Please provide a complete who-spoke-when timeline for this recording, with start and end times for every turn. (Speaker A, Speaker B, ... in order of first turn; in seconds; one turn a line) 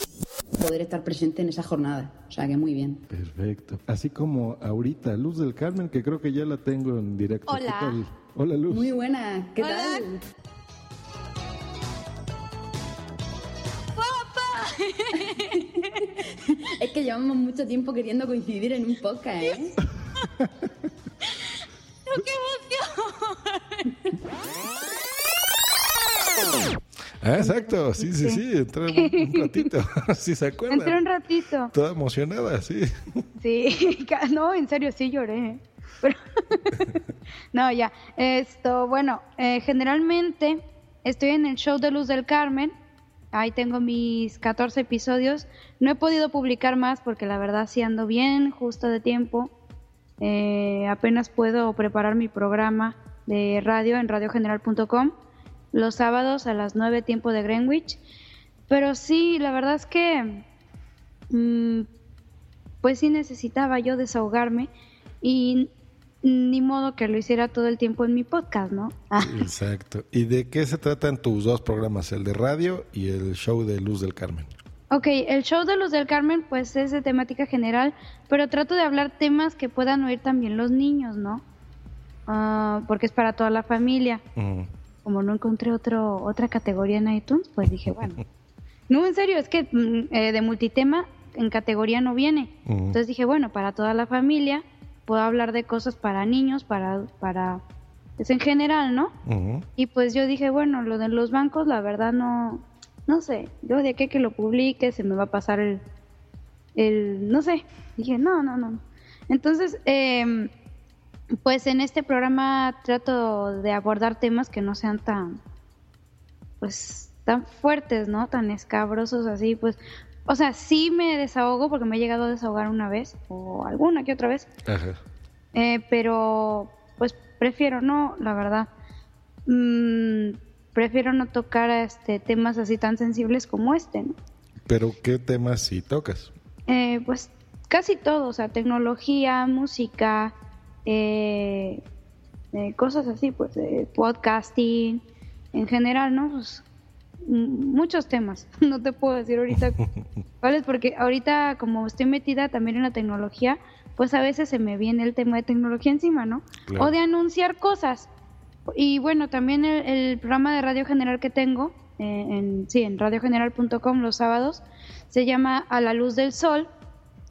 Speaker A: 0.6-3.0
Speaker B: 3.1-8.9
Speaker C: 7.5-8.0
Speaker A: 8.7-10.2
Speaker C: 9.6-10.1
Speaker C: 13.9-16.2
Speaker A: 16.5-19.8
Speaker C: 22.1-24.0
Speaker B: 27.2-31.0
Speaker C: 27.4-29.7
Speaker C: 30.7-31.7
Speaker B: 31.7-32.9
Speaker C: 33.4-42.7
Speaker C: 43.3-49.5
Speaker C: 50.2-55.1
Speaker C: 55.7-58.0
Speaker C: 58.7-60.5
Speaker C: 61.3-61.9
Speaker C: 62.8-64.7
Speaker C: 65.2-65.7
Speaker C: 66.2-69.5
Speaker B: 69.2-74.5
Speaker C: 74.9-81.4
Speaker C: 82.3-84.2
Speaker B: 84.4-84.7
Speaker C: 85.0-88.2
Speaker C: 88.9-97.6
Speaker B: 92.7-93.0
Speaker C: 98.2-99.1
Speaker B: 99.2-99.7
Speaker C: 99.8-105.8
Speaker C: 106.8-110.5
Speaker C: 111.4-115.4
Speaker C: 116.6-124.5
Speaker B: 124.7-125.0
Speaker C: 125.5-128.7
Speaker C: 129.5-134.1
Speaker B: 134.7-136.3
Speaker C: 136.7-140.3
Speaker C: 140.8-141.8
Speaker C: 142.5-145.0
Speaker C: 145.5-146.7
Speaker C: 147.2-149.8
Speaker C: 150.4-158.1
Speaker B: 156.7-156.9
Speaker C: 158.7-166.7